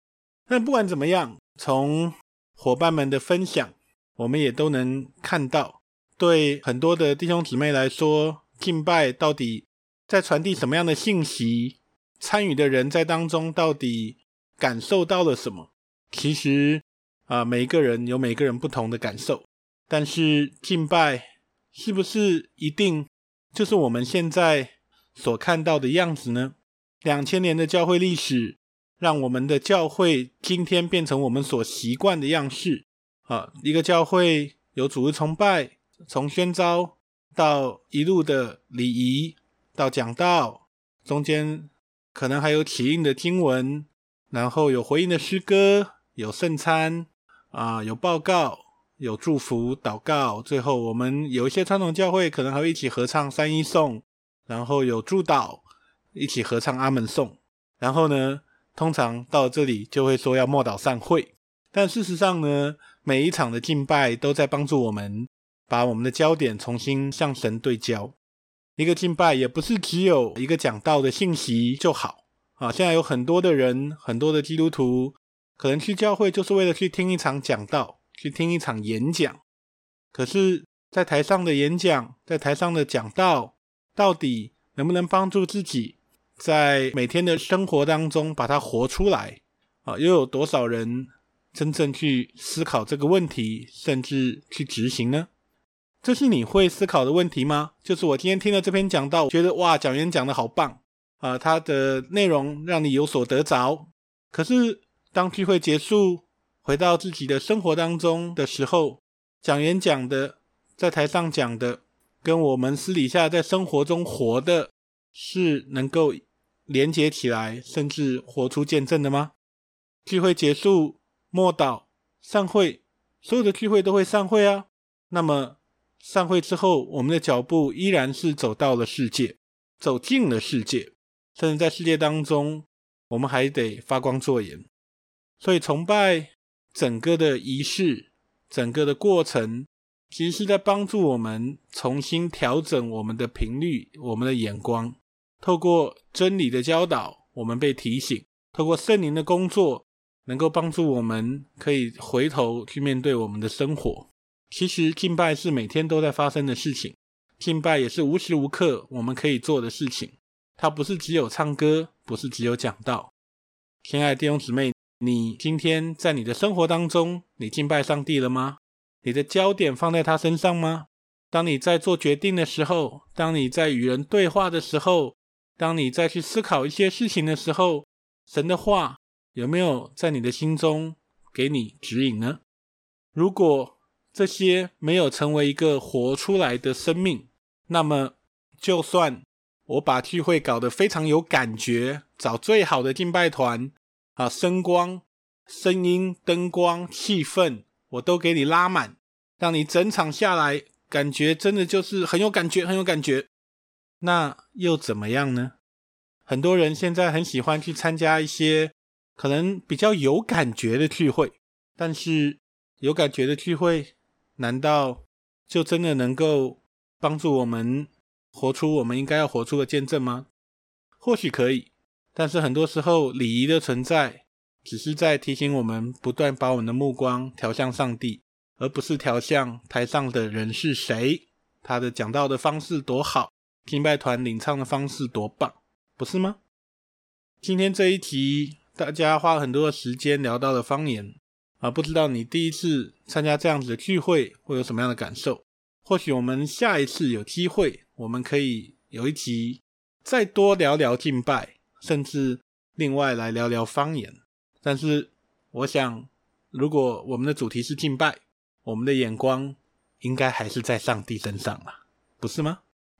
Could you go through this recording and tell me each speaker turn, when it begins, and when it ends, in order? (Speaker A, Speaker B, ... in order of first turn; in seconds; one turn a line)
Speaker A: 0.5-68.1
Speaker A: 68.8-79.4
Speaker A: 80.1-95.3
Speaker A: 96.0-119.3
Speaker A: 120.1-134.7
Speaker A: 135.4-163.1
Speaker A: 163.8-182.4
Speaker A: 183.1-203.3
Speaker A: 204.0-205.5
Speaker A: 206.3-220.3
Speaker A: 221.0-236.4
Speaker A: 237.4-262.6